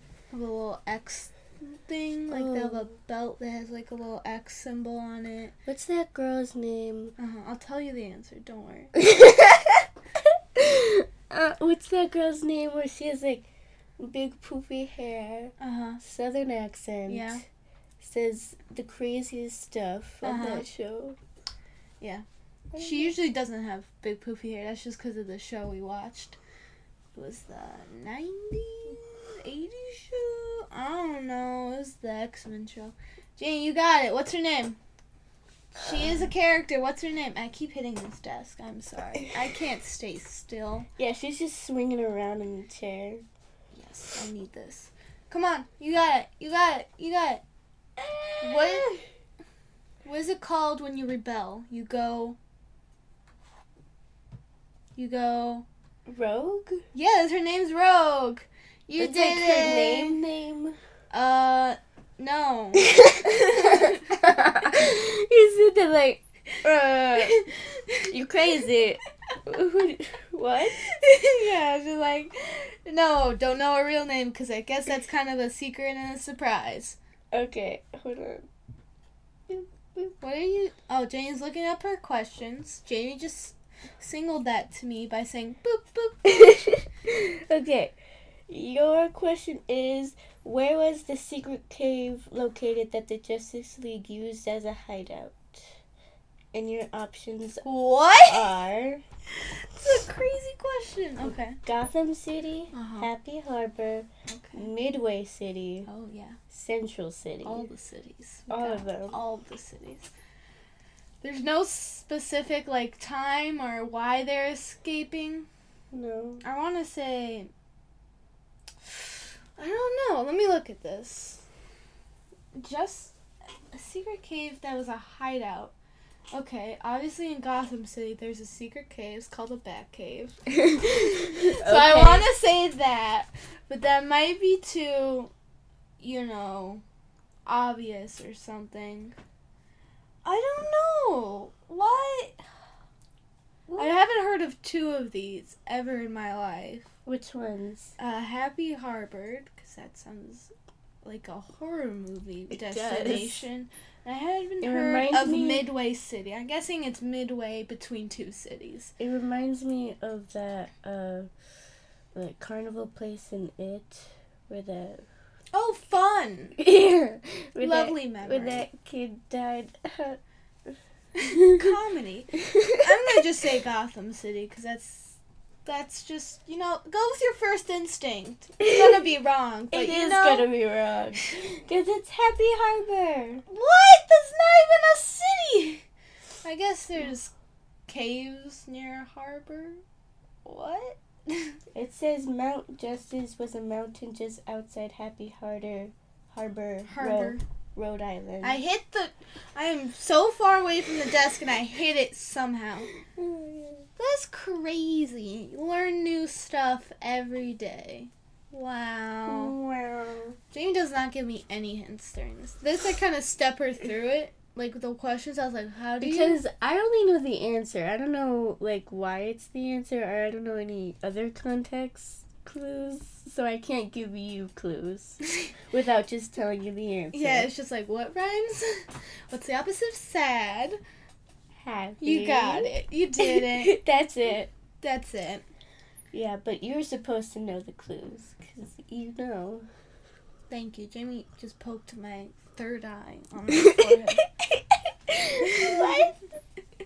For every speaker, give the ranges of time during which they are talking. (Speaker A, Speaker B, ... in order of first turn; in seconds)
Speaker A: 0.3-5.5, 7.2-9.0, 15.6-16.0, 17.1-17.4, 20.2-20.6, 22.8-26.4, 27.1-34.8, 35.7-40.9, 43.7-47.4, 48.4-48.9, 50.0-52.4, 55.0-55.6, 56.9-60.2, 61.1-64.2, 67.2-68.1, 70.8-77.0, 80.2-86.6, 97.6-98.5, 99.3-101.6, 102.7-103.1, 104.3-104.7, 105.8-106.4, 107.4-110.1, 111.2-115.5, 116.4-117.5, 118.8-121.4, 122.5-123.2, 123.7-125.7, 126.3-135.3, 136.0-136.8, 137.4-139.2, 140.2-142.4, 143.8-146.9, 148.0-150.5, 151.0-158.9, 165.5-166.6, 167.6-168.7, 171.2-180.5, 183.5-185.8, 186.4-187.3, 187.9-189.8, 190.4-191.6, 196.8-197.4, 198.4-202.9, 204.0-209.5, 210.5-216.4, 227.1-230.8, 232.0-233.7, 234.8-235.4, 240.5-244.2, 245.5-246.0
Speaker B: 2.3-2.9, 5.7-7.1, 9.0-9.8, 10.6-13.5, 14.0-17.4, 18.0-21.2, 22.7-23.1, 36.0-36.2, 41.0-43.2, 48.0-49.0, 56.1-56.8, 59.0-60.8, 62.8-67.5, 68.1-70.8, 77.3-78.5, 79.5-80.1, 86.2-87.9, 88.5-95.7, 96.5-97.6, 98.3-99.0, 101.2-105.9, 106.5-107.7, 108.5-109.2, 115.9-116.4, 130.6-132.3, 147.1-147.9, 152.5-153.4, 154.6-155.7, 159.0-161.3, 162.1-165.0, 166.6-170.8, 171.3-171.7, 172.4-173.2, 178.6-179.0, 179.7-183.4, 191.7-198.6, 203.1-203.9, 209.3-210.4, 216.0-227.5, 231.5-234.5, 236.1-239.7, 243.5-246.2